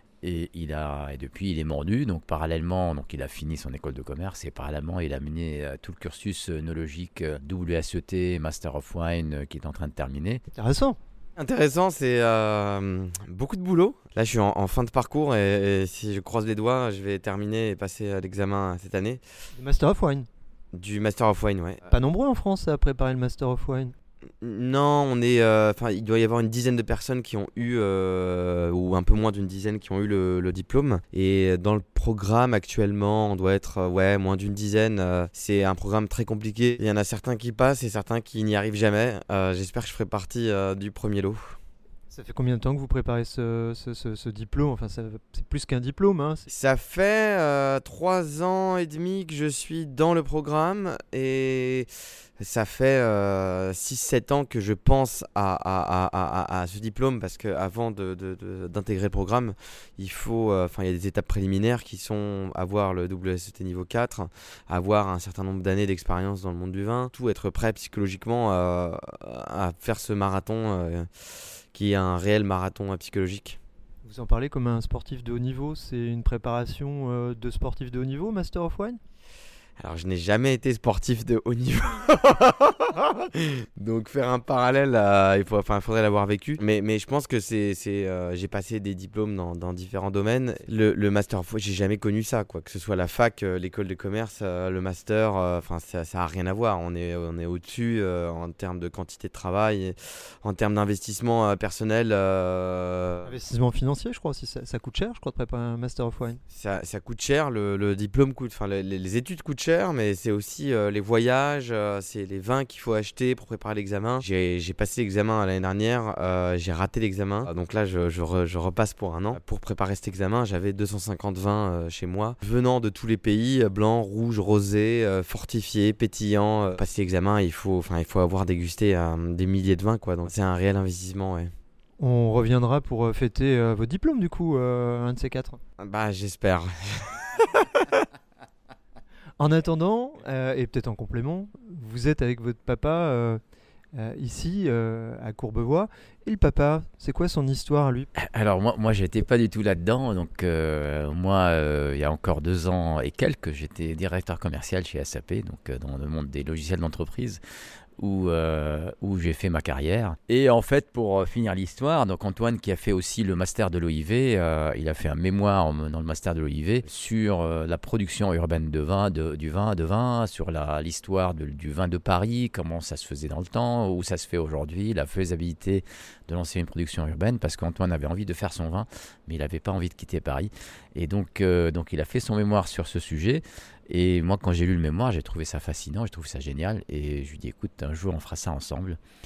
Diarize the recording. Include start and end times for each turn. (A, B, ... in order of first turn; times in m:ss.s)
0:00.2-0:10.4 A
0:10.6-0:11.0 B
0:11.4-0:19.2 C
0:19.6-0:20.3 B
0:20.7-0:21.8 C
0:21.9-0:23.9 B
0:24.4-0:41.6 C
0:42.1-0:46.5 B
0:46.5-1:11.1 C
1:11.7-1:13.6 C
1:14.0-1:19.0 B
1:19.8-1:43.3 C
1:43.2-1:46.4 B
1:46.5-2:11.5 C
2:12.0-2:15.6 B
2:15.8-2:17.5 C
2:19.4-2:23.4 B
2:24.0-2:28.1 B
2:28.2-2:37.4 A
2:38.0-3:09.0 A